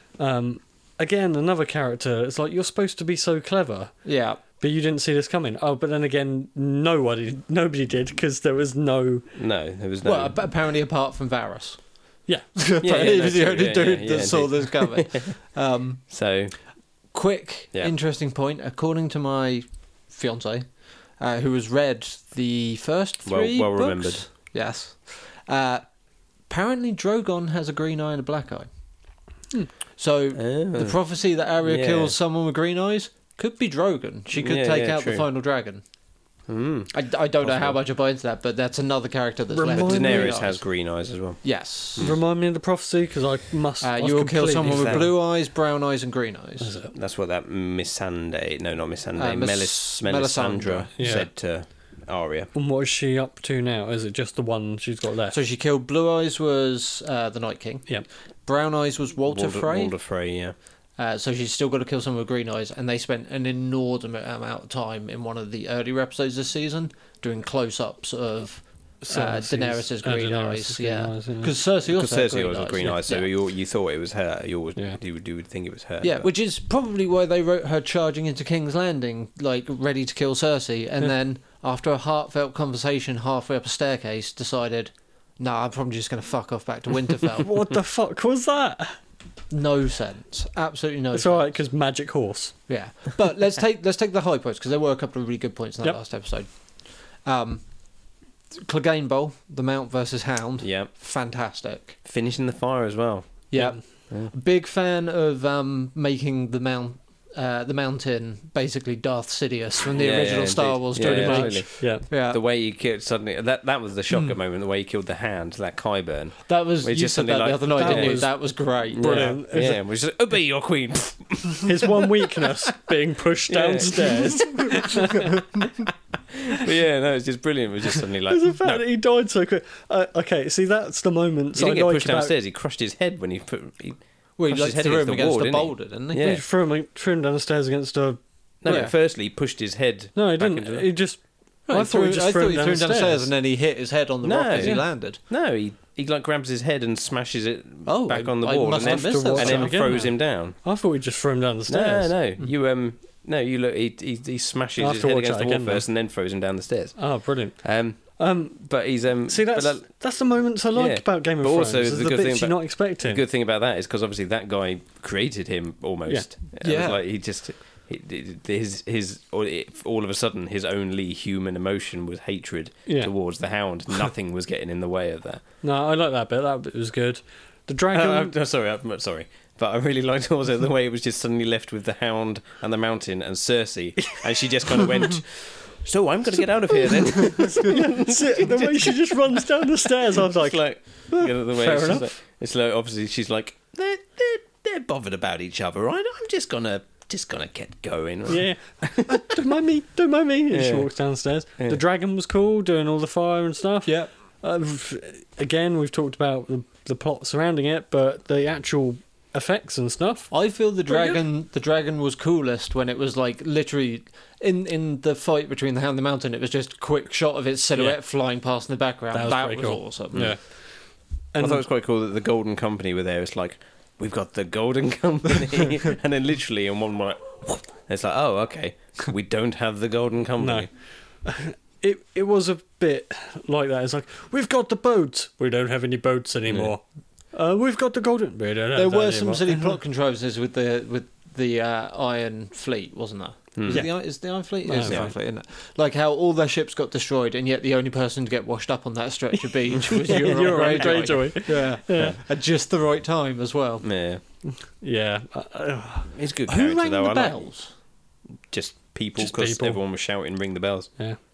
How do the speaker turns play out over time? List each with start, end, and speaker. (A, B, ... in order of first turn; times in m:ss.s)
0:00.2-0:04.0 A
0:04.0-0:04.4 B
0:04.5-0:09.3 A
0:09.3-0:10.4 C
0:10.0-0:11.8 B
0:12.6-0:16.0 B
0:12.8-0:15.3 C
0:16.1-0:16.5 C
0:17.1-0:25.8 B
0:23.2-0:24.2 C
0:26.5-0:28.7 B
0:30.0-0:35.8 B
0:30.3-0:31.0 C
0:31.6-0:32.1 C
0:34.3-0:35.2 C
0:36.5-0:37.8 C
0:36.9-0:40.6 B
0:39.5-0:40.4 A
0:39.7-0:42.2 C
0:41.4-0:42.1 B
0:42.0-0:45.1 A
0:43.8-0:46.7 B
0:44.6-0:45.1 C
0:46.6-0:46.9 A
0:46.9-0:52.5 C
0:49.2-0:50.9 B
0:51.0-0:51.3 A
0:52.5-0:55.4 A
0:55.3-0:59.9 B
0:59.3-1:00.5 C
1:01.0-1:13.3 B
1:09.0-1:11.5 A
1:11.8-1:16.3 C
1:16.0-1:27.5 B
1:27.4-1:29.0 A
1:29.5-1:31.5 B
1:31.1-1:32.5 A
1:32.7-1:37.6 B
1:38.5-1:42.0 B
1:40.6-1:40.9 C
1:42.0-1:43.6 C
1:43.5-1:52.4 B
1:50.0-1:58.3 C
1:51.0-1:52.0 A
1:56.5-1:59.4 B
1:57.8-1:59.8 A
1:58.9-2:02.5 C
2:01.6-2:05.4 A
2:03.5-2:04.9 C
2:06.3-2:08.8 C
2:08.3-2:12.3 A
2:11.5-2:16.4 C
2:14.4-2:16.2 B
2:16.1-2:18.8 A
2:18.6-2:20.9 C
2:18.6-2:18.9 B
2:20.1-2:23.3 A
2:21.7-2:25.2 B
2:24.2-2:30.6 C
2:24.6-2:24.8 A
2:27.8-2:30.1 B
2:28.8-2:32.2 A
2:31.7-2:39.9 C
2:34.8-2:35.8 A
2:37.0-2:38.6 A
2:39.3-2:43.2 A
2:40.7-2:55.4 C
2:46.6-2:47.0 B
2:52.8-2:53.1 A
2:55.6-2:58.3 A
2:57.9-3:19.4 C
3:06.7-3:12.2 A
3:18.3-3:30.3 A
3:20.5-3:20.9 C
3:30.3-3:40.3 B
3:30.9-3:31.2 A
3:39.1-3:40.4 A
3:40.1-3:40.4 C
3:41.3-3:41.6 A
3:41.4-3:50.7 C
3:50.4-3:50.7 A
3:51.2-3:59.7 A
3:56.5-3:56.7 C
3:58.7-4:13.8 B
4:03.6-4:03.9 C
4:03.7-4:05.1 A
4:04.8-4:05.1 C
4:09.9-4:11.4 C
4:10.1-4:12.2 A
4:13.8-4:14.2 C
4:14.6-4:16.1 A
4:16.1-4:17.4 C
4:16.5-4:17.7 B
4:18.5-4:20.9 C
4:19.2-4:19.8 A